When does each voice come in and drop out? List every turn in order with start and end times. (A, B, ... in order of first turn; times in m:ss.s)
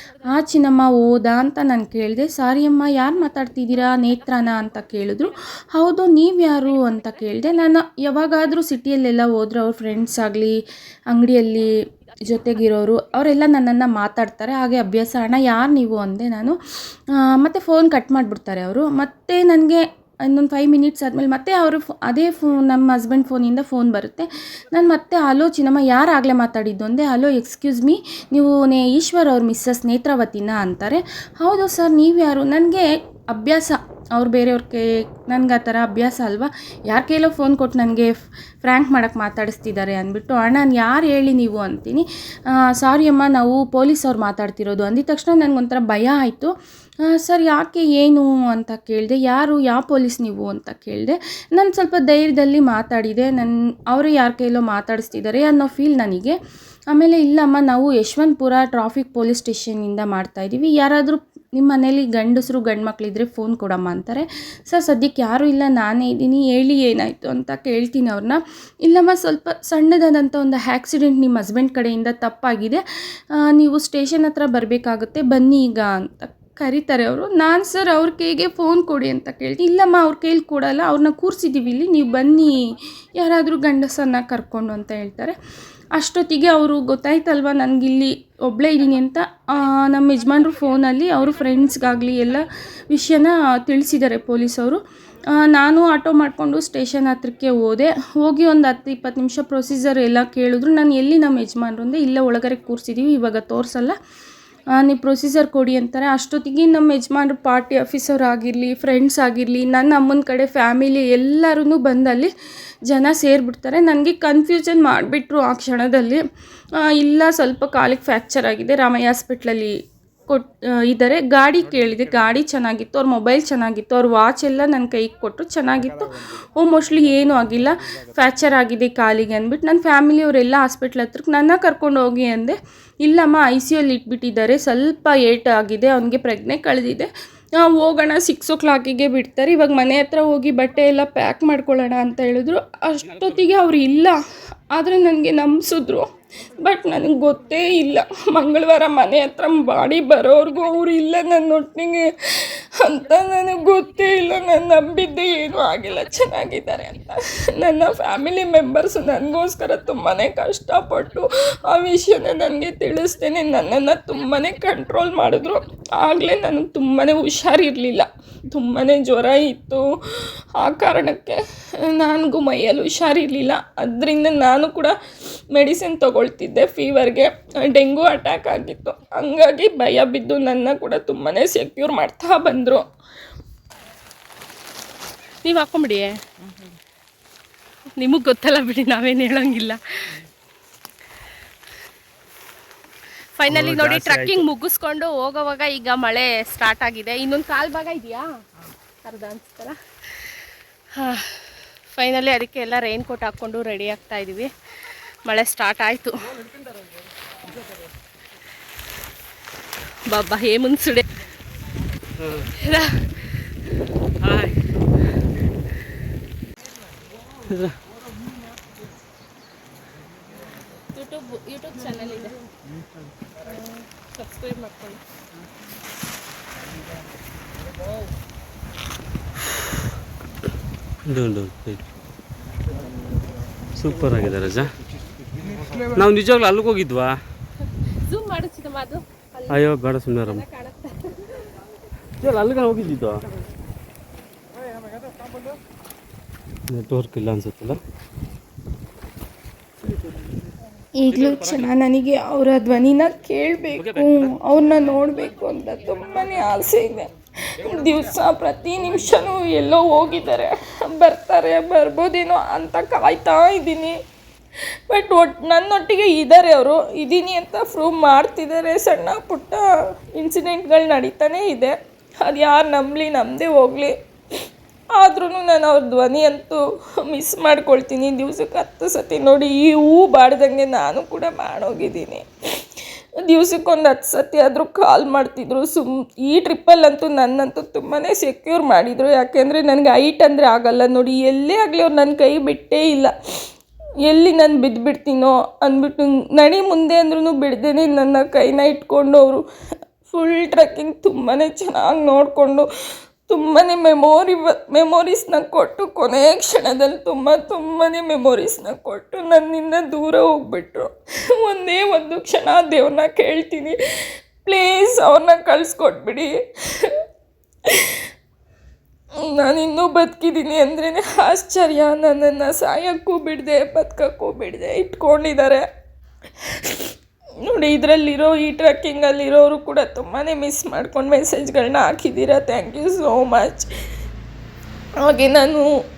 0:00.2-0:10.5 A
0:11.1-0:11.7 A
0:12.3-0:16.6 A
0:17.1-0:42.0 A
0:42.6-0:46.5 A
0:47.0-0:56.4 A
0:56.9-1:12.8 A
1:13.3-1:25.4 A
1:25.9-1:34.8 A
1:35.3-1:44.0 A
1:44.8-1:52.3 A
1:52.9-1:56.2 A
1:56.8-1:59.7 A
2:00.3-2:24.2 A
2:24.7-2:49.8 A
2:50.6-2:54.9 A
2:55.5-3:02.9 A
3:05.4-3:06.2 B
3:08.0-3:09.8 B
3:13.4-3:18.2 B
3:13.5-3:14.4 C
3:19.0-3:19.8 B
3:21.0-3:21.4 B
3:21.9-3:24.5 B
3:25.2-3:26.3 B
3:30.1-3:31.0 B
3:32.2-3:32.5 C
3:32.6-3:33.0 B
3:34.2-3:34.6 C
3:37.4-3:37.8 C
3:41.0-3:42.4 B
3:43.4-3:45.0 B
3:51.0-3:51.8 C
3:53.8-3:54.7 C
3:55.9-3:57.2 C
3:58.0-3:59.6 B
3:59.5-4:00.4 C
4:00.2-4:01.4 B
4:02.2-4:03.2 C
4:06.7-4:07.8 C
4:11.0-4:24.0 A
4:24.9-4:33.9 A
4:34.9-4:42.2 A
4:43.2-4:53.1 A
4:54.0-4:59.4 A
5:00.0-5:02.7 A
5:03.3-5:13.8 A
5:14.4-5:16.3 A
5:19.2-5:25.6 A
5:27.4-5:33.7 A
5:35.0-5:35.7 A